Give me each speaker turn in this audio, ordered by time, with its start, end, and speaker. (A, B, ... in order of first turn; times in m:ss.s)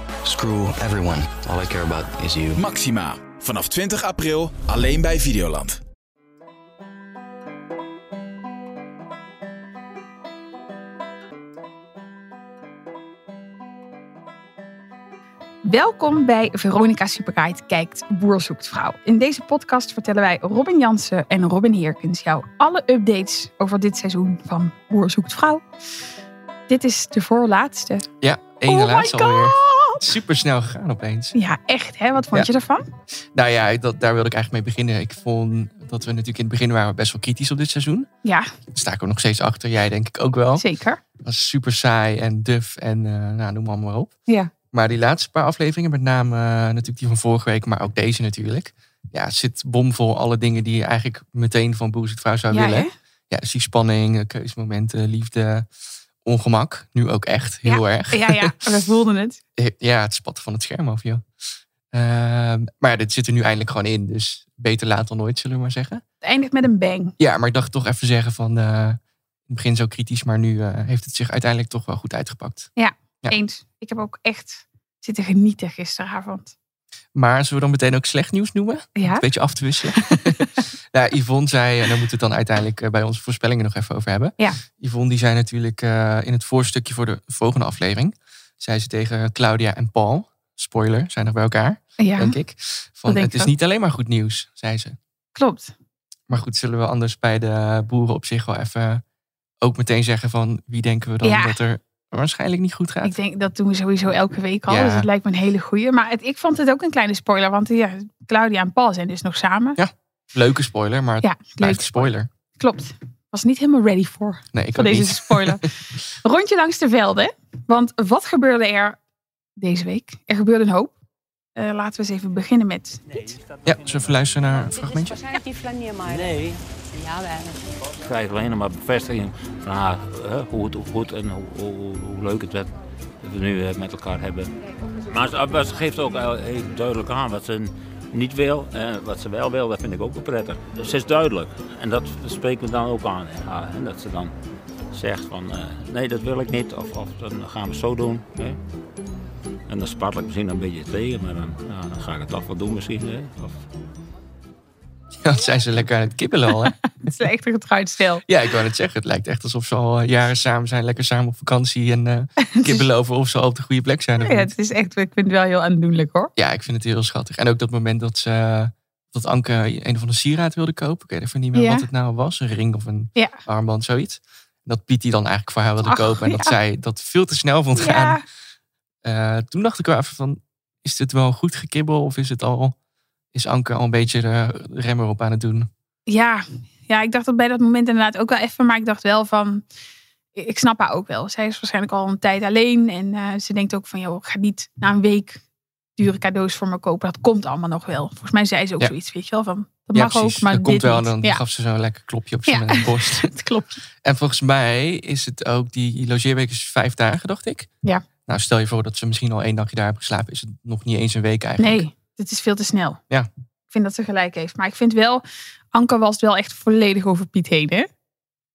0:00.2-0:02.6 A
0:02.6-0:05.8 B
0:15.6-0:25.6 C
0:26.7-0:28.1 C
0:28.2-0:31.4 D
0:28.7-0:30.0 C
0:31.3-0:32.9 C
0:33.4-0:38.1 D
0:38.2-0:38.5 C
0:38.7-0:40.6 D
0:40.6-0:41.0 C
0:41.2-0:44.1 D
0:44.3-0:44.5 C
0:44.7-0:55.7 D
0:52.5-0:52.9 C
0:56.2-0:58.6 D
0:57.6-0:59.4 C
0:59.6-1:01.2 D
1:01.9-1:06.0 D
1:06.2-1:07.1 C
1:07.2-1:12.7 D
1:12.8-1:16.5 C
1:17.2-1:35.0 D
1:19.0-1:19.2 C
1:32.0-1:32.4 C
1:33.1-1:33.5 C
1:35.4-1:35.7 C
1:36.3-1:39.0 D
1:39.6-1:43.2 D
1:41.2-1:41.6 C
1:43.0-1:49.8 C
1:44.7-1:45.1 D
1:49.8-1:52.3 D
1:51.2-1:59.0 C
1:54.5-1:55.7 D
1:59.6-2:00.9 C
2:01.6-2:03.2 C
2:03.6-2:05.4 D
2:06.1-2:06.6 E
2:08.0-2:14.5 E
2:15.1-2:24.3 E
2:24.9-2:28.6 E
2:29.7-2:33.6 E
2:35.2-2:36.8 D
2:37.0-2:38.2 C
2:38.3-2:44.5 D
2:42.4-2:42.9 C
2:44.2-2:46.3 C
2:46.4-2:58.2 D
2:51.5-2:51.9 C
2:55.8-2:56.6 C
2:57.8-2:58.2 C
2:59.0-3:02.8 D
3:03.3-3:05.7 D
3:06.1-3:09.6 C
3:10.4-3:15.4 C
3:16.0-3:21.4 C
3:19.9-3:23.3 D
3:22.5-3:23.8 C
3:24.0-3:27.7 D
3:28.3-3:31.8 D
3:31.6-3:33.0 C
3:33.7-3:37.9 C